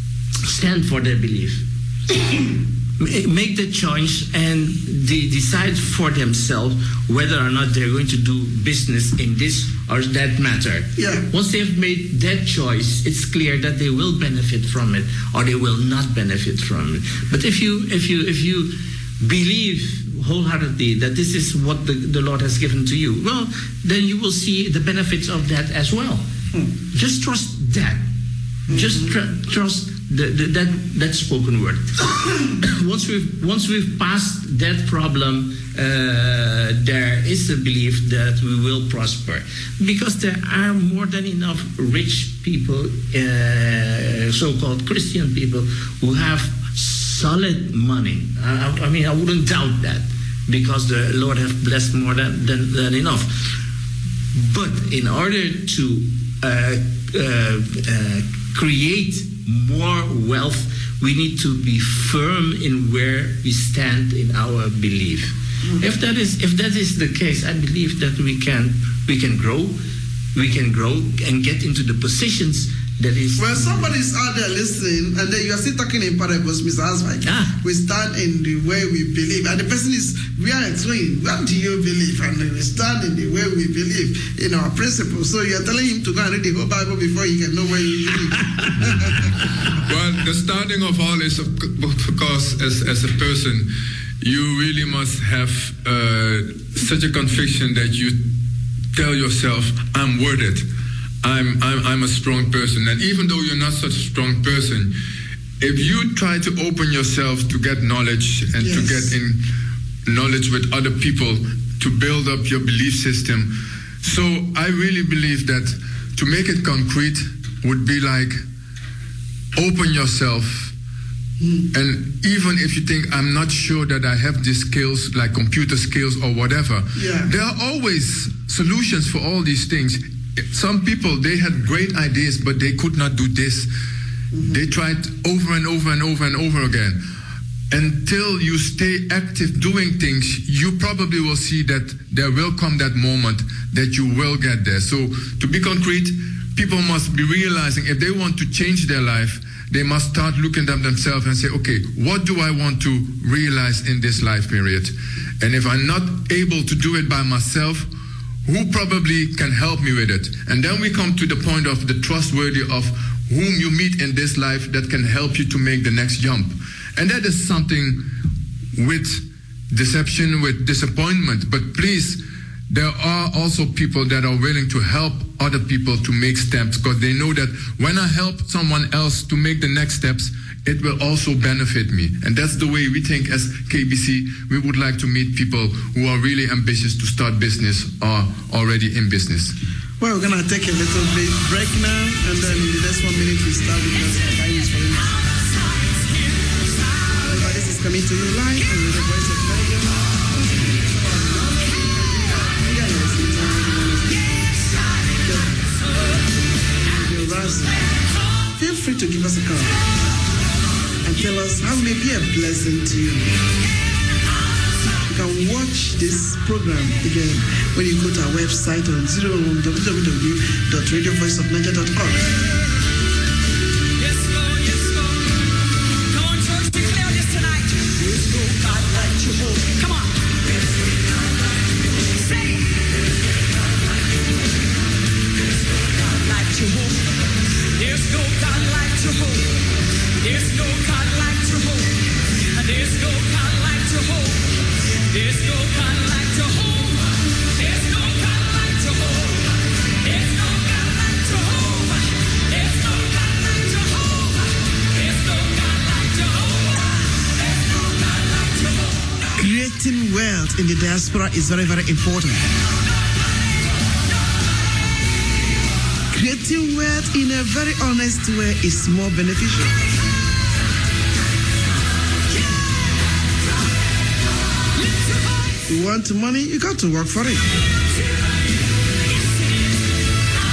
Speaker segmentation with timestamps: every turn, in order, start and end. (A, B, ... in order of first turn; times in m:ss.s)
0:00.5-0:01.6 A
0:03.0-0:26.2 A
0:11.0-0:11.3 B
0:26.9-0:28.0 A
0:28.7-0:29.1 B
0:28.7-0:31.9 A
0:32.6-0:53.5 A
0:54.4-1:09.8 A
1:10.4-1:13.9 A
1:13.4-1:29.3 B
1:17.2-1:17.6 A
1:29.9-1:33.7 C
1:34.2-1:38.3 C
1:38.9-1:40.7 C
1:41.2-1:44.9 C
1:45.6-1:49.4 C
1:48.6-1:49.1 B
1:50.1-1:58.4 C
1:59.6-2:00.7 C
2:01.4-2:01.7 B
2:01.7-2:13.7 C
2:07.0-2:07.3 B
2:14.3-2:14.7 B
2:14.4-2:17.0 C
2:17.7-2:37.9 C
2:38.4-2:48.1 C
2:48.8-3:09.5 C
3:10.0-3:15.2 B
3:17.2-3:26.0 B
3:26.8-3:27.9 B
3:28.6-3:29.8 B
3:31.0-3:33.4 B
3:35.1-3:42.3 B
4:19.4-4:22.5 B
4:26.1-4:29.8 B
4:35.7-4:37.4 B